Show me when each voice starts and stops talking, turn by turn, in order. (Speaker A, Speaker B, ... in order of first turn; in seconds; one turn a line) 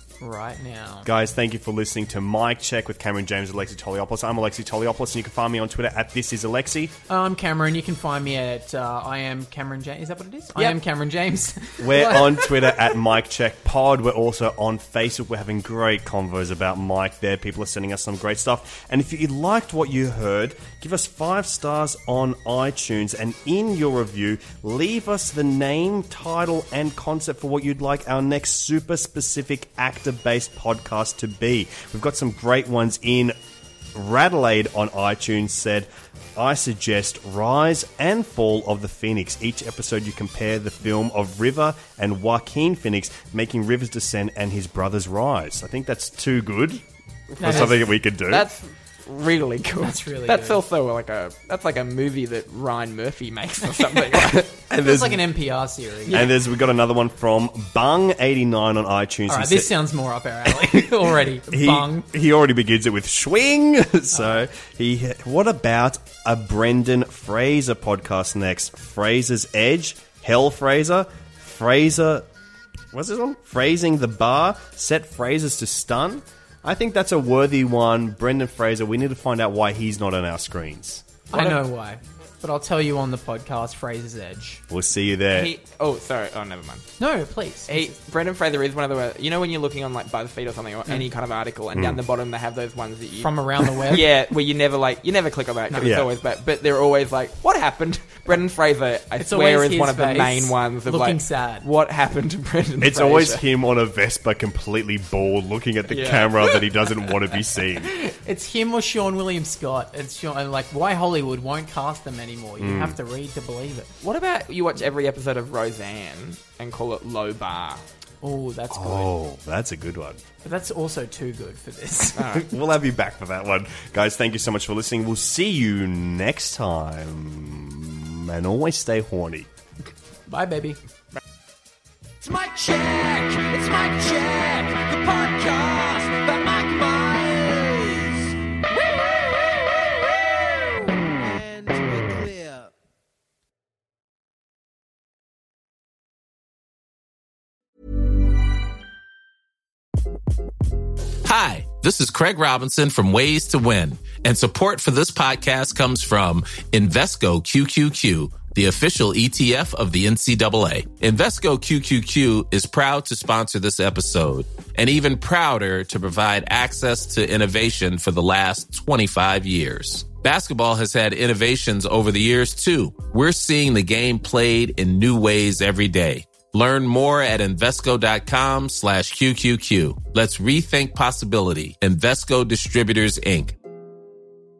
Speaker A: 0.2-1.1
Speaker B: 1.0-6.9
Speaker A: 7.1-12.9
Speaker B: 11.8-33.4
Speaker B: 33.9-46.8
Speaker C: 47.3-54.5
Speaker B: 47.4-48.5
Speaker A: 47.4-47.8
Speaker A: 49.8-50.6
Speaker B: 54.3-55.2
Speaker A: 54.7-56.2
Speaker B: 56.1-59.7
Speaker A: 59.3-62.1
Speaker B: 60.5-72.3
Speaker A: 64.2-64.4
Speaker B: 72.9-81.0
Speaker C: 81.3-81.6
Speaker A: 81.3-84.6
Speaker B: 84.7-85.5
Speaker C: 85.3-86.9
Speaker A: 87.0-87.9
Speaker C: 87.7-103.4
Speaker B: 91.7-92.0
Speaker A: 93.2-94.0
Speaker A: 95.7-96.0
Speaker B: 95.8-96.1
Speaker A: 99.2-101.6
Speaker B: 102.8-107.9
Speaker C: 105.9-106.5
Speaker A: 107.8-113.9
Speaker B: 112.6-113.0
Speaker C: 114.0-117.8
Speaker A: 118.2-119.1
Speaker B: 118.7-120.2
Speaker A: 120.4-122.2
Speaker C: 122.2-122.5
Speaker B: 122.3-129.5
Speaker A: 130.3-130.8
Speaker D: 132.2-142.7
Speaker E: 151.2-183.5